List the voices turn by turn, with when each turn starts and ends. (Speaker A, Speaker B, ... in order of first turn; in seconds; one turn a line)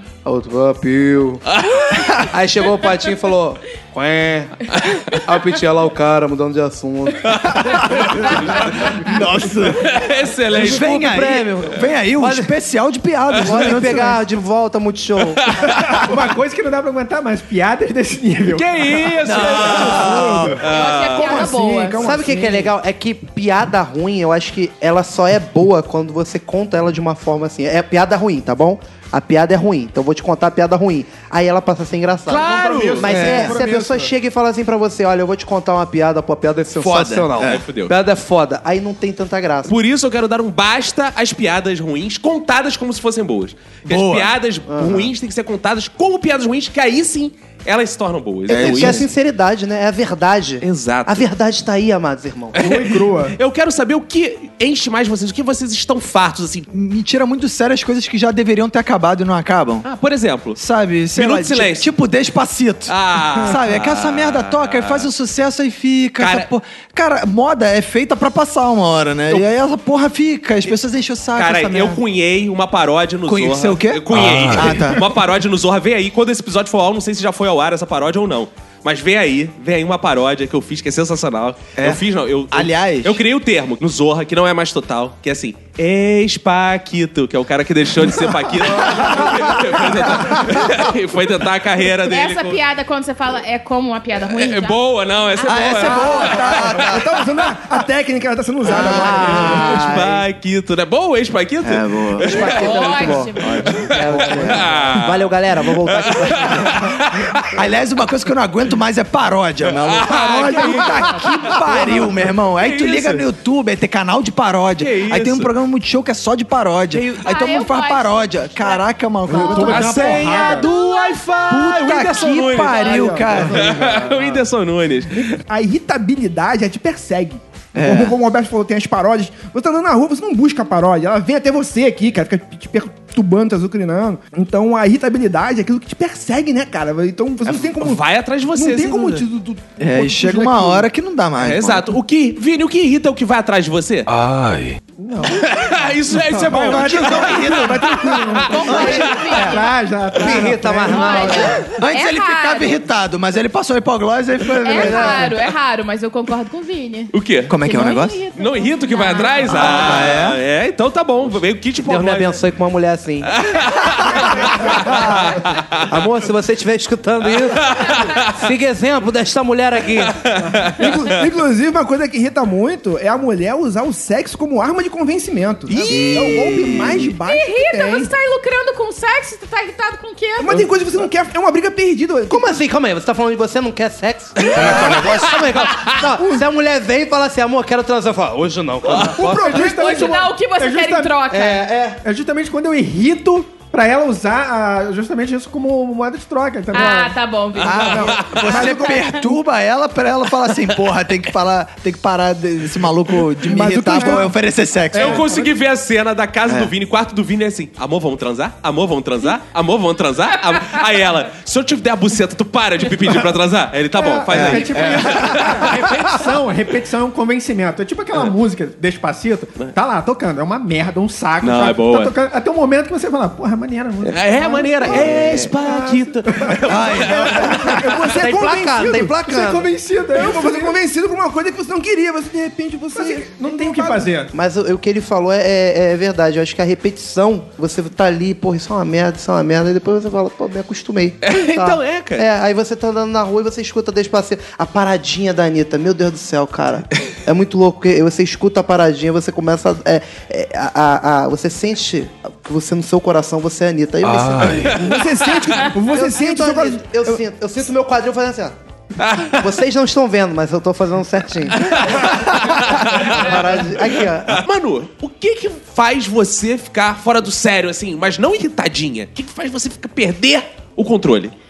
Speaker A: 0.2-1.4
Speaker B: 1.5-2.3
Speaker A: 2.2-8.3
Speaker B: 4.7-5.0
Speaker B: 7.3-8.9
Speaker C: 7.9-10.0
Speaker B: 9.7-11.0
Speaker C: 10.5-14.2
Speaker A: 10.6-12.5
Speaker A: 13.3-15.6
Speaker B: 13.3-13.8
Speaker B: 15.4-16.1
Speaker D: 15.7-20.6
Speaker B: 18.5-21.6
Speaker C: 19.2-20.6
Speaker E: 20.5-22.7
Speaker F: 20.6-22.0
Speaker A: 22.0-39.7
Speaker B: 32.3-33.5
Speaker D: 32.4-34.0
Speaker C: 33.0-33.7
Speaker C: 36.8-37.6
Speaker B: 37.4-37.9
Speaker B: 39.7-49.0
Speaker C: 43.9-44.4
Speaker A: 44.7-45.1
Speaker C: 48.5-49.1
Speaker A: 48.5-52.7
Speaker B: 50.6-51.3
Speaker D: 52.5-53.4
Speaker B: 52.5-56.7
Speaker C: 56.7-59.9
Speaker B: 59.8-60.6
Speaker C: 60.5-72.0
Speaker B: 61.1-61.9
Speaker B: 62.9-65.1
Speaker B: 66.2-66.5
Speaker B: 71.3-92.6
Speaker C: 73.3-75.1
Speaker G: 74.1-75.0
Speaker C: 81.8-83.2
Speaker C: 88.7-90.6
Speaker F: 92.0-96.5
Speaker B: 94.3-97.0
Speaker C: 95.4-97.1
Speaker E: 96.1-99.8
Speaker C: 98.6-99.8
Speaker A: 98.6-100.2
Speaker B: 99.4-103.0
Speaker C: 101.6-102.6
Speaker A: 102.2-106.9
Speaker F: 102.3-103.9
Speaker C: 103.4-104.7
Speaker B: 103.6-107.5
Speaker C: 107.5-120.2
Speaker B: 109.7-113.2
Speaker E: 110.2-111.0
Speaker B: 114.8-115.5
Speaker B: 116.9-117.2
Speaker F: 117.2-123.2
Speaker D: 119.3-120.7
Speaker B: 119.5-125.4
Speaker C: 121.5-123.8
Speaker D: 122.9-123.8
Speaker A: 123.4-124.3
Speaker E: 125.1-140.9
Speaker C: 127.7-128.2
Speaker B: 137.4-139.2
Speaker C: 139.8-141.9
Speaker B: 141.4-144.1
Speaker G: 144.1-144.8
Speaker D: 145.0-145.5
Speaker B: 145.2-149.4
Speaker D: 146.2-146.9
Speaker E: 146.5-148.5
Speaker C: 146.6-147.9
Speaker D: 148.0-151.3
Speaker F: 148.4-149.7
Speaker C: 148.7-149.0
Speaker A: 148.7-149.6
Speaker A: 150.2-151.6
Speaker F: 150.9-152.8
Speaker C: 151.7-155.3
Speaker F: 154.6-159.8
Speaker A: 154.7-155.3
Speaker B: 157.1-157.5
Speaker C: 157.5-158.2
Speaker B: 158.4-162.4
Speaker C: 159.4-160.4
Speaker A: 161.8-163.4
Speaker B: 163.3-165.9
Speaker A: 164.0-170.2
Speaker B: 167.4-168.3
Speaker B: 170.2-171.2
Speaker E: 170.7-178.1
Speaker B: 175.7-176.1
Speaker C: 175.8-177.1
Speaker F: 177.2-180.6
Speaker E: 180.4-182.5
Speaker A: 182.3-189.6
Speaker B: 184.4-186.0
Speaker C: 184.7-185.0
Speaker B: 188.8-189.2
Speaker D: 189.1-191.2
Speaker E: 189.2-189.6
Speaker F: 189.5-191.7
Speaker A: 191.3-192.0
Speaker D: 192.0-197.2
Speaker F: 196.7-199.2
Speaker B: 197.6-198.6
Speaker C: 197.6-205.3
Speaker E: 197.8-199.0
Speaker E: 203.4-204.3
Speaker B: 204.9-216.2
Speaker D: 204.9-205.5
Speaker C: 206.5-206.7
Speaker D: 214.0-226.6
Speaker C: 214.3-215.5
Speaker B: 221.4-222.1
Speaker B: 224.0-227.8
Speaker C: 226.7-227.7
Speaker E: 227.0-229.2
Speaker D: 227.4-227.9
Speaker A: 228.0-229.7
Speaker D: 229.2-230.8
Speaker E: 230.1-234.1
Speaker D: 232.9-234.3
Speaker A: 234.3-255.0
Speaker B: 241.2-242.2
Speaker G: 254.0-254.8
Speaker B: 254.5-255.7
Speaker E: 254.7-257.2
Speaker A: 255.8-258.6
Speaker B: 259.0-259.4
Speaker A: 259.3-264.4
Speaker B: 261.5-271.3